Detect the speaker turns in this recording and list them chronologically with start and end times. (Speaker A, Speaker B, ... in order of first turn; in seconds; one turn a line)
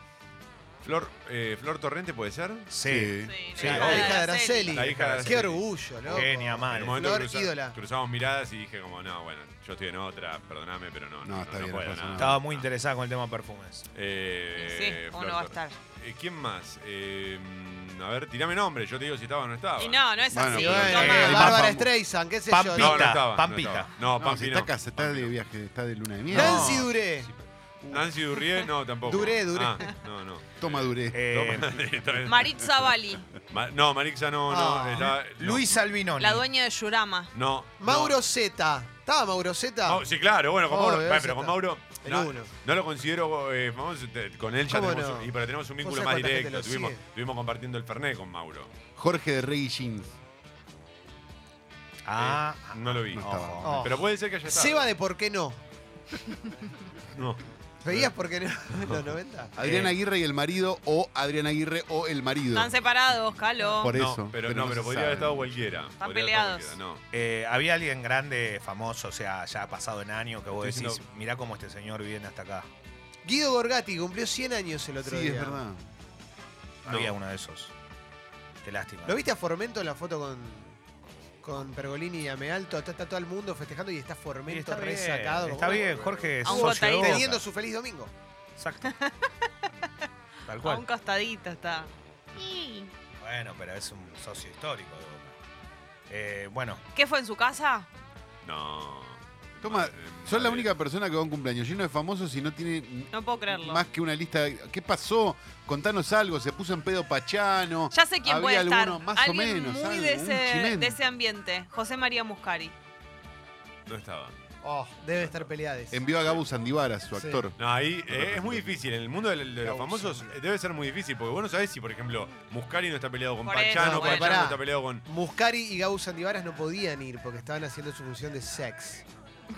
Speaker A: 0.8-2.7
Speaker B: 2.7-4.2
Speaker C: 2.8-3.4
Speaker D: 3.2-4.8
Speaker E: 3.5-7.8
Speaker A: 3.6-4.2
Speaker A: 4.7-12.7
Speaker B: 4.8-5.5
Speaker B: 6.1-7.2
Speaker C: 11.2-12.4
Speaker B: 12.2-13.9
Speaker A: 13.9-20.1
Speaker D: 14.6-15.8
Speaker D: 19.8-21.6
Speaker C: 20.3-21.9
Speaker E: 20.5-23.2
Speaker B: 20.9-21.7
Speaker B: 22.5-23.9
Speaker A: 22.8-25.3
Speaker C: 24.2-26.9
Speaker E: 26.3-27.3
Speaker B: 26.3-26.9
Speaker A: 27.9-32.8
Speaker E: 29.0-29.9
Speaker C: 30.6-31.2
Speaker B: 31.1-31.7
Speaker D: 32.2-33.3
Speaker A: 33.5-35.8
Speaker E: 34.5-35.2
Speaker B: 35.3-36.5
Speaker D: 36.2-37.3
Speaker A: 37.3-38.2
Speaker E: 37.8-40.0
Speaker A: 39.9-48.7
Speaker E: 40.7-42.5
Speaker E: 44.7-47.0
Speaker C: 49.0-50.1
Speaker B: 52.0-53.9
Speaker A: 52.2-54.9
Speaker C: 53.1-53.8
Speaker E: 53.6-55.6
Speaker A: 57.1-58.1
Speaker E: 57.8-59.9
Speaker C: 59.6-62.8
Speaker D: 62.5-63.9
Speaker C: 63.8-65.7
Speaker A: 63.9-67.0
Speaker D: 66.0-66.8
Speaker B: 67.1-72.7
Speaker A: 70.5-71.0
Speaker E: 73.2-75.6
Speaker C: 75.0-75.8
Speaker B: 76.8-77.7
Speaker B: 78.6-79.2
Speaker E: 79.1-80.8
Speaker E: 81.4-88.1
Speaker B: 84.5-87.4
Speaker D: 86.4-87.3
Speaker B: 88.6-88.9
Speaker D: 88.8-90.1
Speaker B: 90.5-90.8
Speaker D: 90.6-92.9
Speaker B: 93.2-95.3
Speaker B: 96.1-96.8
Speaker D: 97.0-97.9
Speaker A: 98.4-100.7
Speaker C: 99.6-111.0
Speaker D: 103.1-103.8
Speaker D: 107.9-112.8
Speaker A: 113.9-114.3
Speaker E: 114.6-116.1
Speaker A: 115.2-115.5
Speaker C: 115.9-117.6
Speaker E: 117.2-117.5
Speaker A: 117.6-125.0
Speaker C: 118.1-118.8
Speaker E: 119.6-120.4
Speaker D: 123.4-124.5
Speaker E: 123.8-129.1